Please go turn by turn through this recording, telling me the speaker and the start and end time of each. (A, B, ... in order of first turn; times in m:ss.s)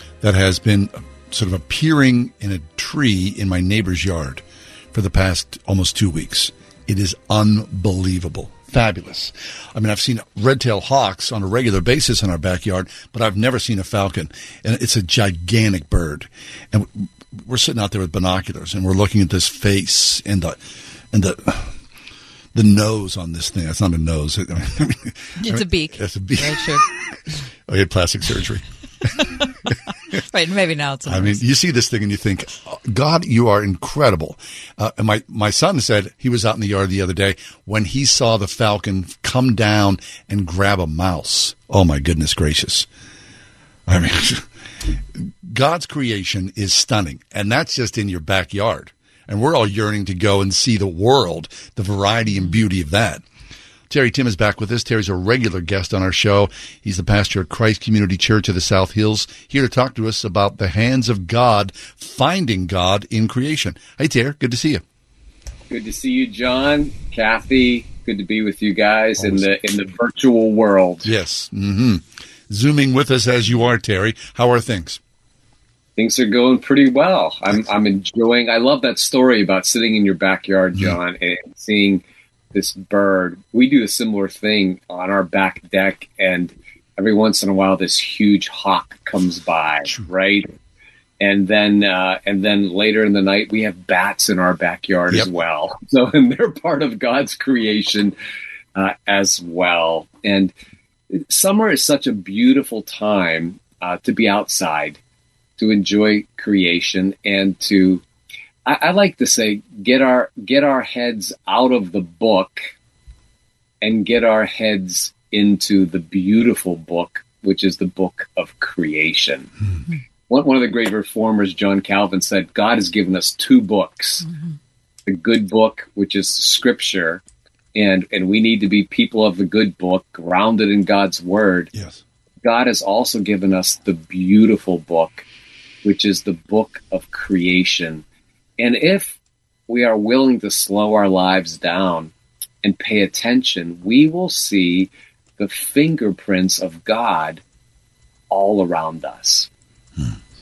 0:00.2-0:20.6 A
0:21.1-0:21.8 A
0:22.5-0:27.1 A
0:25.4-0:26.8 B
0:27.7-0:29.3 A
0:30.3-0:31.4 B
0:31.1-0:42.9 A
0:43.9-0:44.5 A
0:45.2-0:53.2 A
0:52.3-0:52.6 B
0:53.9-1:04.8 A
1:05.7-1:11.1 C
1:09.2-1:09.5 A
1:11.0-1:15.0 A
1:16.0-1:22.0 C
1:22.5-1:30.5 C
1:31.2-1:38.1 C
1:38.8-1:40.5 C
1:41.1-1:45.0 C
1:45.6-1:48.0 C
1:48.7-1:52.6 C
1:53.8-1:59.5 C
2:00.3-2:04.3 C
2:04.2-2:04.6 B
2:05.1-2:07.2 C
2:07.8-2:11.7 C
2:11.7-2:12.0 A
2:12.4-2:15.2 C
2:15.8-2:18.0 C
2:18.6-2:19.2 C
2:19.7-2:22.1 C
2:22.6-2:27.4 C
2:28.3-2:29.5 C